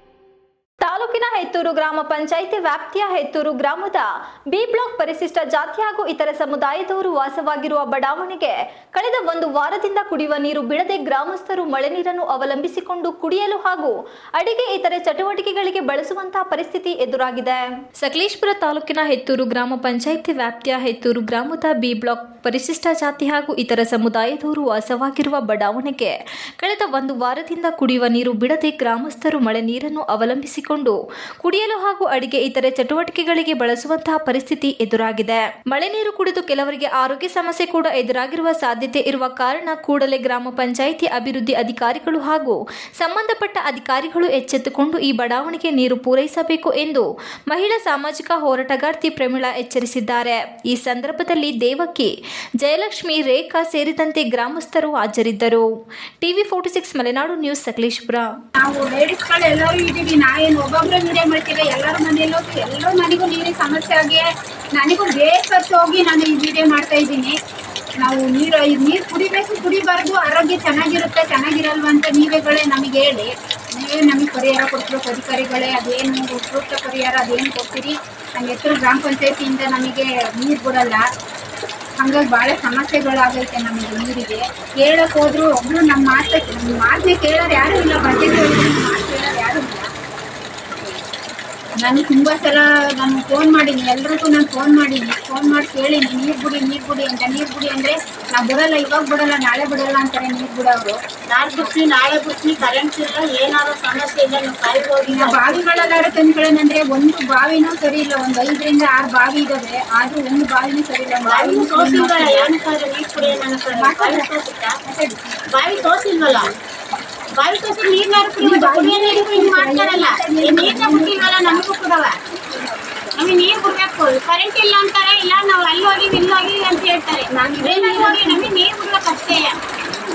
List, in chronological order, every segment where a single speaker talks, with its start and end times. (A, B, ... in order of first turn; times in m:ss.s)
0:00.8-0:55.6 A
0:56.2-0:58.3 A
0:58.6-1:07.3 B
1:08.0-1:21.0 B
1:22.0-1:29.9 B
1:31.8-1:41.0 B
1:41.3-1:45.8 C
1:45.1-1:52.5 B
1:51.3-1:54.8 C
1:53.7-1:54.3 B
1:54.8-1:55.4 B
1:55.5-1:56.5 C
1:57.4-2:02.2 C
1:58.4-2:01.7 B
2:02.5-2:03.1 B
2:03.2-2:09.6 C
2:07.3-2:08.5 B